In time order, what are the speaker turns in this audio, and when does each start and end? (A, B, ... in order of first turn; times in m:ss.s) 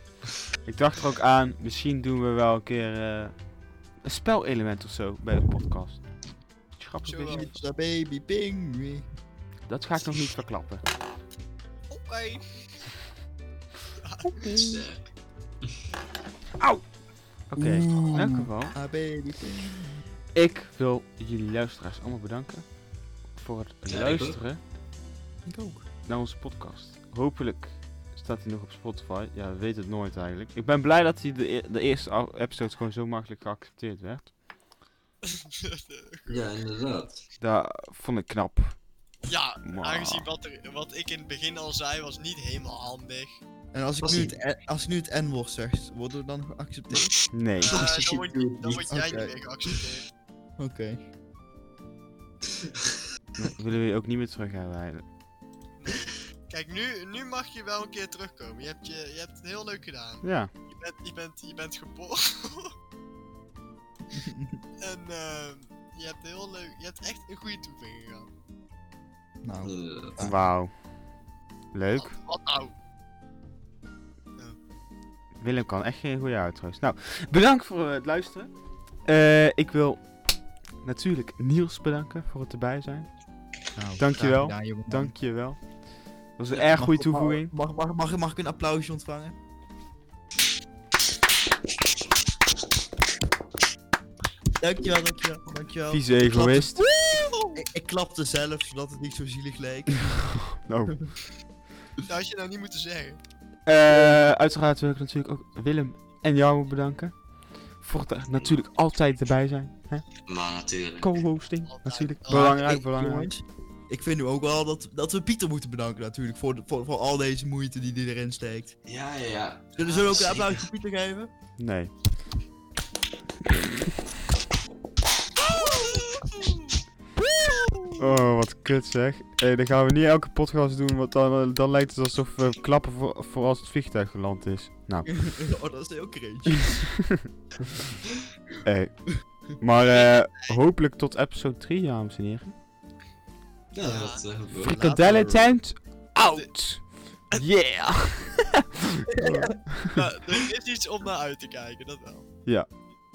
0:00.6-0:03.3 A
0:04.0-0:06.0 A
0:06.8-0:07.5 A
0:07.0-0:07.6 B
0:07.3-0:09.1 C
0:09.7-0:10.8 A
0:11.9-0:12.4 B
0:14.0-0:14.6 B
0:14.3-0:14.8 A
0:14.5-0:15.1 D
0:16.6-0:16.8 A
0:17.5-0:18.8 A
0:17.6-0:20.0 C
0:20.3-0:22.6 A
0:23.4-0:24.6 A
0:23.9-0:24.4 D
0:25.4-0:34.3 A
0:35.2-0:36.5 B
0:36.3-0:37.2 D
0:37.4-0:38.8 A
0:39.2-0:43.4 B
0:39.6-0:40.3 A
0:43.7-0:47.2 C
0:44.0-0:44.3 D
0:47.3-0:47.9 A
0:47.6-0:50.0 B
0:47.7-0:48.8 D
0:48.6-0:49.3 C
0:50.6-0:51.0 C
0:53.4-0:55.0 A
0:55.8-1:02.7 B
1:00.2-1:00.5 A
1:04.1-1:04.6 C
1:04.8-1:08.3 B
1:09.4-1:10.4 C
1:09.6-1:10.2 D
1:10.2-1:10.7 A
1:11.7-1:12.1 A
1:12.0-1:12.7 B
1:15.4-1:18.5 A
1:19.0-1:20.0 A
1:20.8-1:23.1 A
1:23.8-1:25.1 C
1:24.0-1:25.6 A
1:26.4-1:27.5 A
1:26.5-1:29.3 C
1:34.6-1:36.9 C
1:35.9-1:36.8 A
1:36.9-1:37.6 B
1:37.5-1:40.3 C
1:40.2-1:41.1 A
1:42.1-1:43.2 B
1:43.6-1:47.1 A
1:43.9-1:44.2 C
1:47.8-1:50.1 A
1:50.2-1:51.1 D
1:51.0-1:53.3 A
1:51.6-1:52.6 B
1:52.3-1:58.7 C
1:58.9-2:00.6 D
1:59.7-2:01.3 C
1:59.8-2:00.3 B
2:01.6-2:01.9 A
2:05.5-2:06.7 B
2:08.0-2:15.3 A
2:15.1-2:16.8 C
2:16.5-2:17.2 A
2:18.6-2:22.5 A
2:19.9-2:20.6 B
2:23.7-2:24.8 D
2:23.8-2:24.2 B
2:24.6-2:30.0 A
2:24.6-2:25.5 C
2:29.1-2:29.6 C
2:29.9-2:32.2 B